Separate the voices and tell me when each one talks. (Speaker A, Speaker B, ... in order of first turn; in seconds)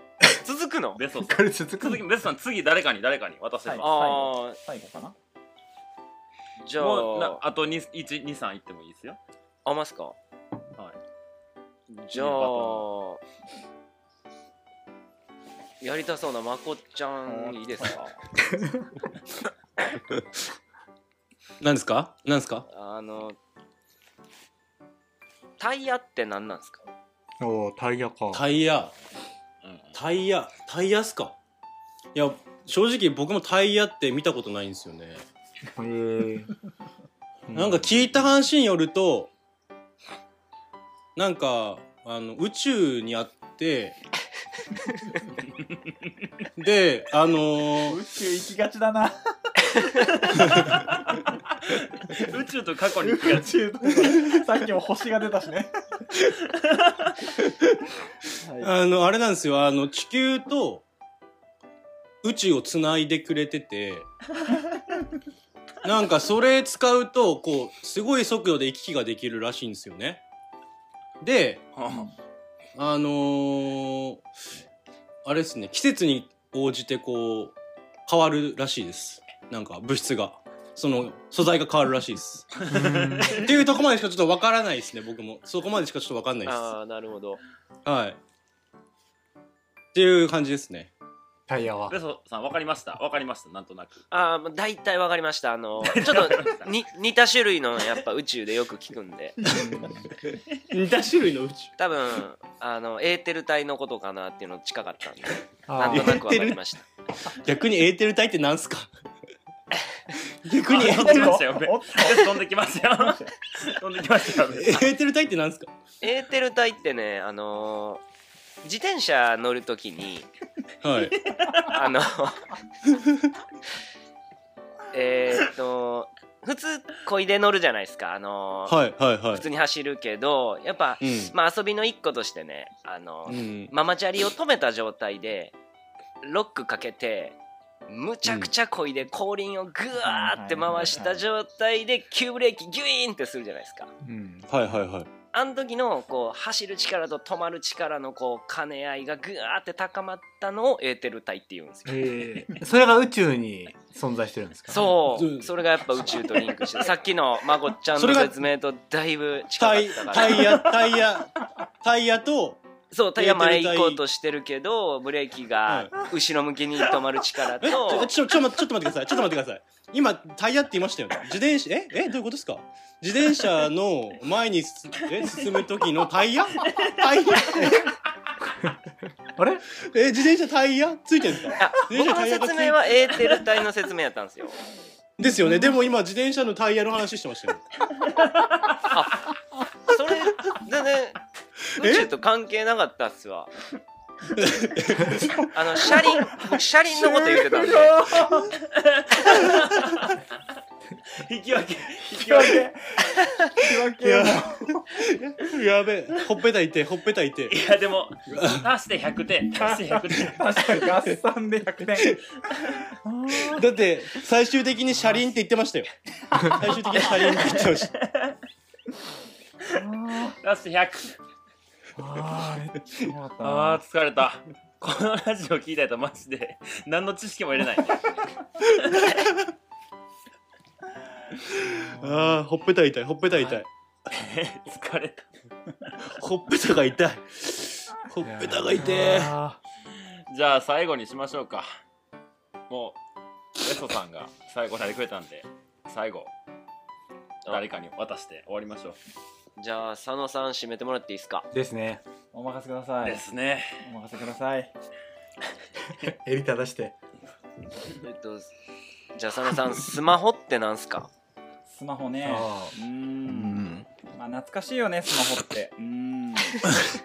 Speaker A: 0.2-1.0, 3.8-4.6, 6.6-7.4, 9.6-10.2, 11.9-13.2, 15.8-18.1, 22.7-23.4, 25.6-26.9, 86.4-87.4, 94.1-99.4, 101.8-106.8, 116.0-118.0, 118.6-120.3, 121.5-122.5, 124.9-128.8, 129.3-135.6, 136.2-143.9, 145.3-152.4, 154.7-160.7, 162.9-168.1, 181.6-184.6, 188.9-191.2, 191.8-193.5, 195.5-198.1, 249.6-251.5, 258.0-258.5, 259.1-261.1
Speaker B: 0.9-4.0, 6.8-9.2, 12.1-12.8, 29.6-29.9, 50.5-51.1, 51.6-53.6, 56.5-57.1, 71.8-72.1, 82.6-83.7, 91.9-94.0, 95.8-96.7, 110.6-114.8, 121.2-121.7, 176.6-176.9, 198.5-200.2, 201.1-202.7, 207.5-210.9, 217.3-218.3, 220.4-221.2, 223.4-229.1, 234.1-235.3, 240.3-241.7, 242.7-243.0, 243.6-246.3, 247.5-249.0, 253.0-253.8
Speaker C: 1.2-2.0, 27.4-28.4, 35.8-36.5, 37.5-37.9, 82.7-83.4, 91.5-92.0, 99.5-100.0, 105.7-106.2, 144.0-144.5, 151.9-155.0, 179.3-179.6, 238.2-239.6, 251.5-252.0, 255.9-257.0, 262.2-262.7, 263.3-263.9
Speaker D: 3.6-5.1, 17.2-18.0, 47.8-50.9, 53.0-55.7, 58.4-58.7, 110.7-113.3, 139.9-141.2, 196.9-198.5, 202.1-205.0, 209.6-213.7, 216.4-217.1, 219.7-220.4, 222.0-223.8, 252.3-253.2, 253.8-254.7, 261.7-266.6
Speaker E: 21.6-22.6, 28.3-28.9, 29.9-31.4, 32.1-35.2, 37.5-39.3, 41.1-44.0, 46.5-48.0, 57.4-57.8, 58.6-60.8, 62.2-64.1, 65.8-70.2, 71.2-71.7, 72.8-74.2, 75.2-77.5, 78.1-82.5, 83.3-86.7, 87.8-88.2, 89.9-90.9, 100.7-101.7, 105.8-106.6, 107.2-108.9, 110.4-111.4, 114.5-115.7, 120.8-121.2, 122.9-123.3, 128.7-129.5, 131.0-131.3, 133.3-133.7, 138.2-138.5, 144.5-145.1, 155.0-156.2, 157.9-158.4, 159.6-162.6, 163.2-164.0, 165.7-166.1, 167.6-177.9, 179.8-182.9, 185.2-187.7, 191.6-192.1, 194.3-195.5, 204.0-207.6, 208.3-208.7, 211.9-212.2, 213.3-215.9, 216.4-217.9, 228.8-229.4, 231.5-233.7, 236.0-239.3